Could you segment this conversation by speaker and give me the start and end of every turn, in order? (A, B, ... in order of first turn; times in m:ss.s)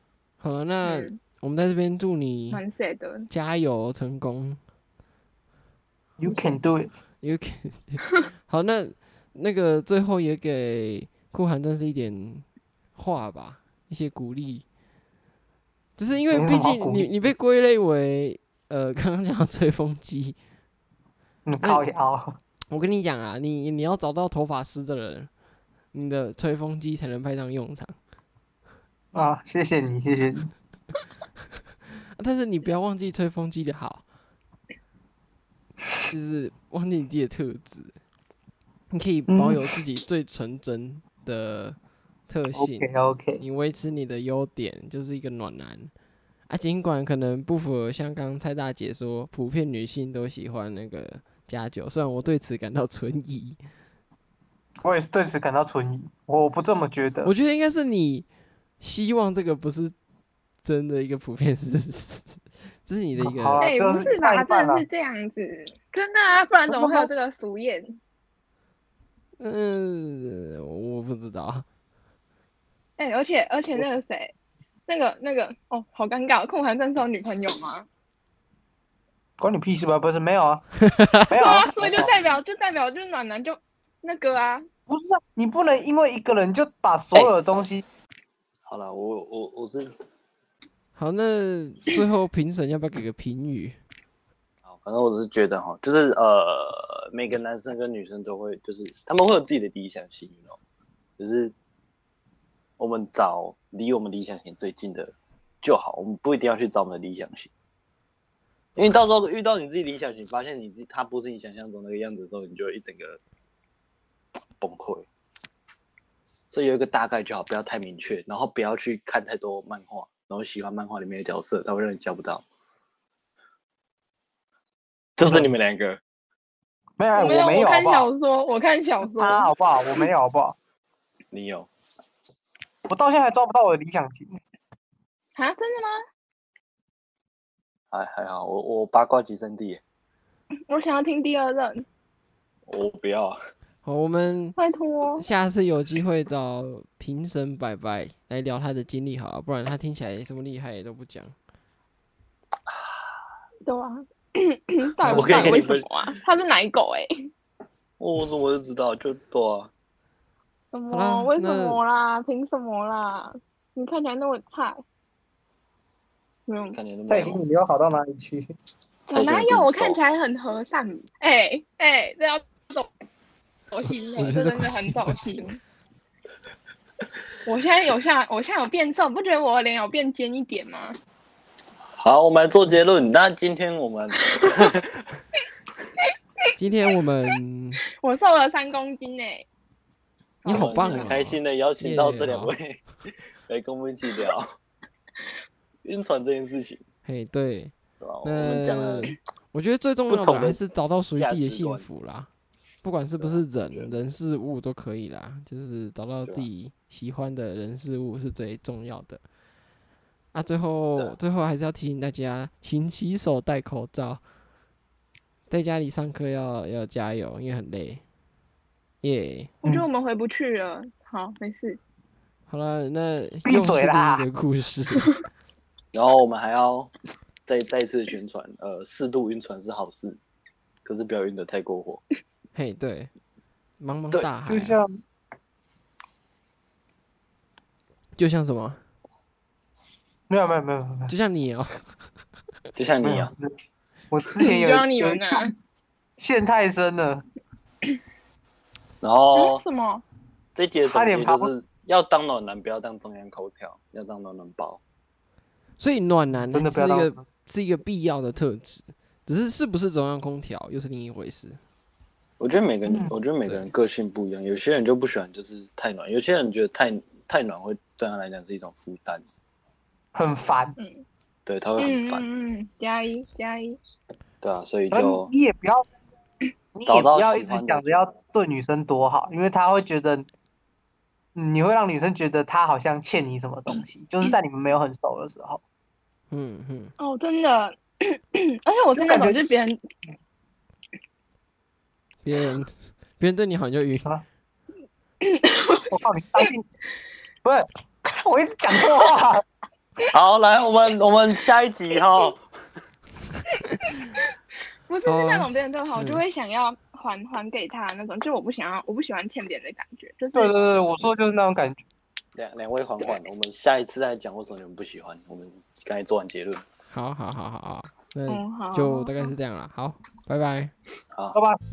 0:00.4-0:02.6 A
0:00.8-0:01.2 B
0:02.5-0:03.3 B
0:03.3-0:04.6 A
0:06.2-0:07.0 C
0:07.2-0:12.4 A
0:13.0-0:14.6 A
0:16.0-0:20.4 A
0:16.3-0:17.1 C
0:21.4-0:22.4 C
0:22.7-0:25.3 A
0:25.9-0:27.9 A
0:29.1-0:30.5 C
0:32.2-0:34.0 A
0:36.1-0:37.9 A
0:38.9-0:41.8 A
0:39.3-0:39.6 C
0:42.3-0:45.9 A
0:42.5-0:43.4 C
0:46.5-0:53.6 A
0:54.8-0:57.3 C
0:57.2-0:58.3 A
0:58.8-1:00.0 A
1:00.6-1:03.6 A
1:03.2-1:04.8 C
1:03.6-1:08.0 B
1:06.7-1:07.1 C
1:09.4-1:11.6 A
1:13.0-1:14.3 B
1:14.9-1:17.9 B
1:19.4-1:20.7 C
1:20.9-1:21.3 A
1:21.3-1:22.1 C
1:21.3-1:24.6 B
1:24.9-1:27.8 C
1:28.6-1:29.9 D
1:30.9-1:33.8 A
1:34.6-1:40.6 D
1:41.2-1:41.5 D
1:42.8-1:47.5 D
1:48.8-1:53.2 D
1:54.6-1:55.1 D
1:56.5-2:02.4 D
2:05.2-2:06.0 D
2:05.2-2:05.5 C
2:07.0-2:08.1 C
2:07.1-2:09.5 B
2:09.0-2:10.6 C
2:11.3-2:11.7 D
2:12.9-2:14.4 C
2:15.4-2:16.0 B
2:17.9-2:19.8 D
2:20.7-2:21.8 B
2:22.7-2:23.3 D
2:23.8-2:24.6 A
2:24.6-2:25.2 B
2:25.2-2:31.3 A
2:33.6-2:37.3 B
2:35.0-2:35.9 D
2:35.1-2:35.6 A
2:38.0-2:39.7 D
2:40.7-2:44.8 B
2:40.9-2:41.8 A
2:46.5-2:46.8 B
2:46.7-2:47.4 D
2:47.1-2:48.5 C
2:49.1-2:52.9 B
2:49.1-2:50.0 D
2:53.7-2:55.6 B
2:54.1-2:55.2 A
2:57.4-3:00.9 B
3:01.9-3:04.9 D
3:06.6-3:07.8 A
3:08.0-3:09.5 B
3:10.4-3:11.1 B
3:10.4-3:12.5 A
3:10.5-3:12.8 D
3:13.5-3:14.4 D
3:15.8-3:16.8 D
3:17.0-3:22.3 A
3:18.0-3:19.1 D
3:20.1-3:20.6 D
3:21.1-3:21.8 D
3:22.8-3:29.2 A
3:23.2-3:24.0 D
3:30.3-3:34.2 A
3:35.5-3:38.0 A
3:39.0-3:39.5 A
3:39.6-3:41.8 B
3:42.5-3:45.2 A
3:43.4-3:44.2 C
3:45.9-3:46.9 D
3:47.4-3:50.2 D
3:50.8-3:52.0 D
3:52.5-3:53.1 A
3:53.8-3:54.8 A
3:54.5-3:55.0 C
3:58.2-3:58.8 A
4:00.3-4:01.1 C
4:01.1-4:01.9 A
4:02.8-4:03.3 D
4:03.0-4:03.5 C
4:04.1-4:05.6 C
4:04.4-4:05.5 B
4:06.2-4:07.2 C
4:09.0-4:09.6 D
4:09.3-4:10.0 B
4:10.5-4:14.8 D
4:10.8-4:11.5 C
4:15.8-4:21.6 A
4:16.5-4:17.2 C
4:22.4-4:29.2 D
4:22.8-4:23.1 C
4:23.4-4:23.7 A
4:30.1-4:30.8 C
4:30.8-4:31.0 B
4:31.4-4:32.2 D
4:31.8-4:33.8 B
4:34.4-4:35.3 D
4:34.9-4:35.8 C
4:36.8-4:40.3 C
4:36.8-4:38.2 D
4:41.3-4:45.6 C
4:46.3-4:46.9 A
4:47.0-4:49.8 B
4:49.0-4:49.4 C
4:52.2-4:54.1 A
4:55.2-4:55.9 B
4:55.9-4:56.6 C
4:57.4-4:59.4 C
5:00.1-5:02.4 D
5:04.9-5:10.6 B
5:05.0-5:06.2 A
5:10.3-5:11.8 C
5:12.3-5:16.6 D
5:16.9-5:20.7 A
5:18.3-5:19.3 B
5:21.1-5:21.4 D
5:21.3-5:21.6 C